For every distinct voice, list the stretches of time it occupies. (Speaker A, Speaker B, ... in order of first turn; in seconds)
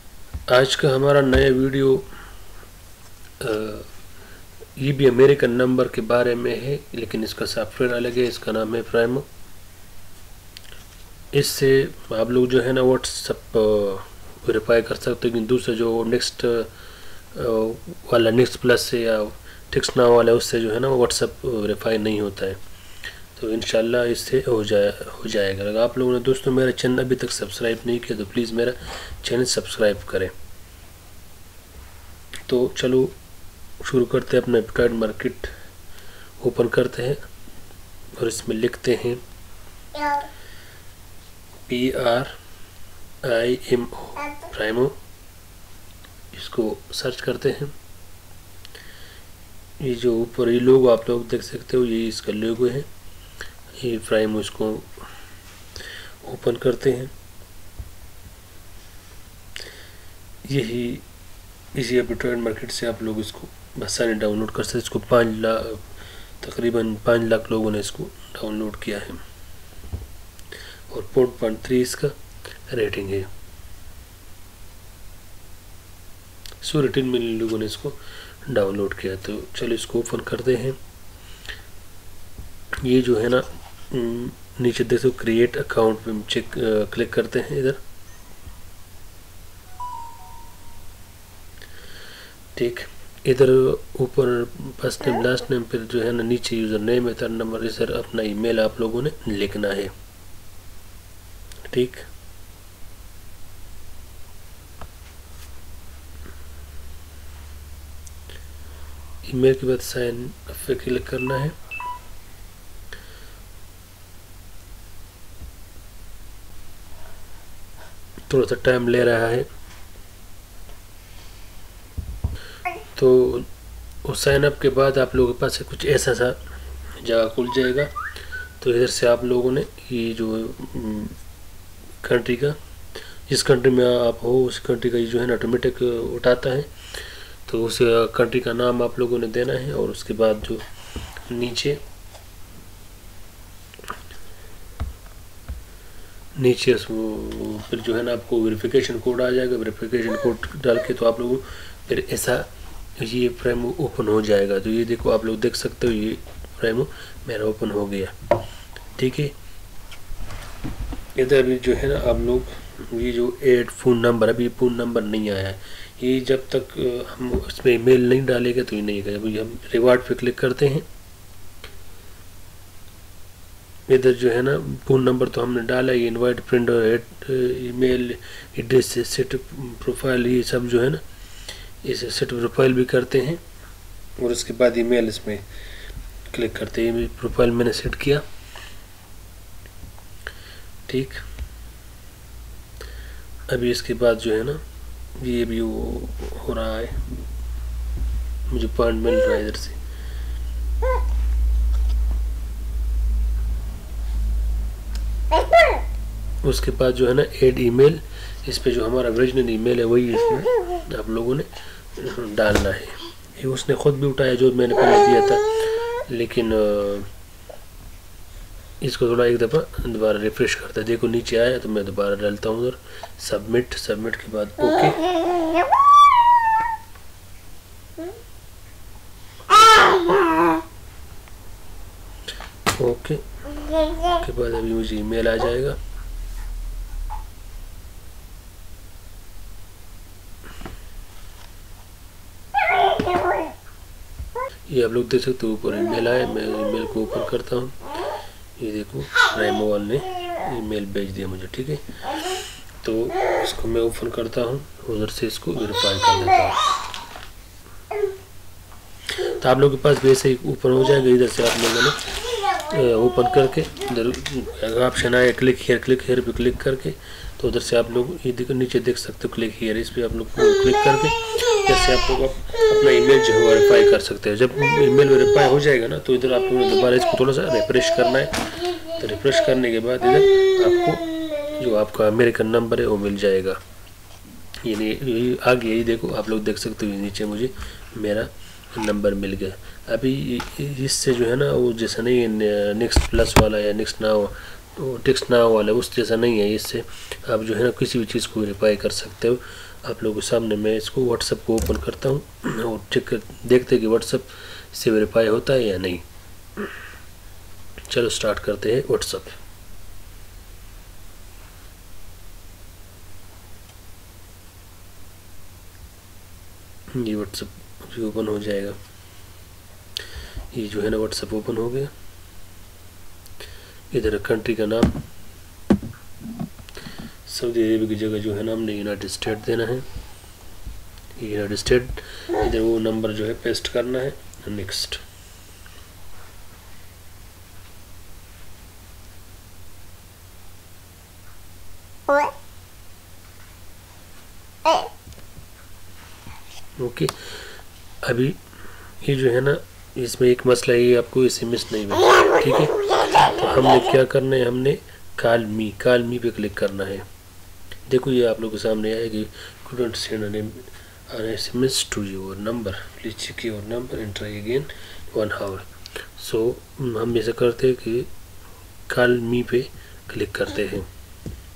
Speaker A: 0.5-2.1, 3.4-3.9, 4.8-9.3, 11.3-16.7, 17.3-22.6, 23.4-30.3, 32.5-33.2, 33.8-35.5, 36.4-37.2, 38.2-39.2, 41.7-42.3, 43.2-45.0, 46.3-47.7, 49.8-52.9, 53.8-55.0, 56.2-57.1, 60.5-61.0, 61.7-65.9, 66.4-69.2, 70.9-72.2, 72.7-73.3, 76.6-80.8, 82.8-87.8, 92.6-99.9, 101.7-102.1, 109.2-111.6, 118.3-119.5, 123.0-123.5, 124.0-126.4, 127.0-127.9, 128.6-131.2, 132.0-132.6, 133.3-136.7, 137.5-140.7, 141.3-141.8, 146.4-158.2, 159.0-159.3, 161.2-170.9, 173.9-181.0, 181.8-183.4, 184.2-185.4, 186.3-188.2, 190.9-191.2, 193.5-194.6, 195.2-197.2, 198.5-199.8, 206.4-217.1, 218.8-225.2, 232.7-235.8, 244.7-247.8, 248.6-256.6, 259.2-283.6, 284.6-306.1, 307.9-309.4, 316.9-318.8, 320.5-321.9, 323.9-325.0, 327.3-329.9, 331.2-335.0, 346.8-347.4, 348.0-348.4, 349.0-357.1, 357.9-368.1, 368.9-370.9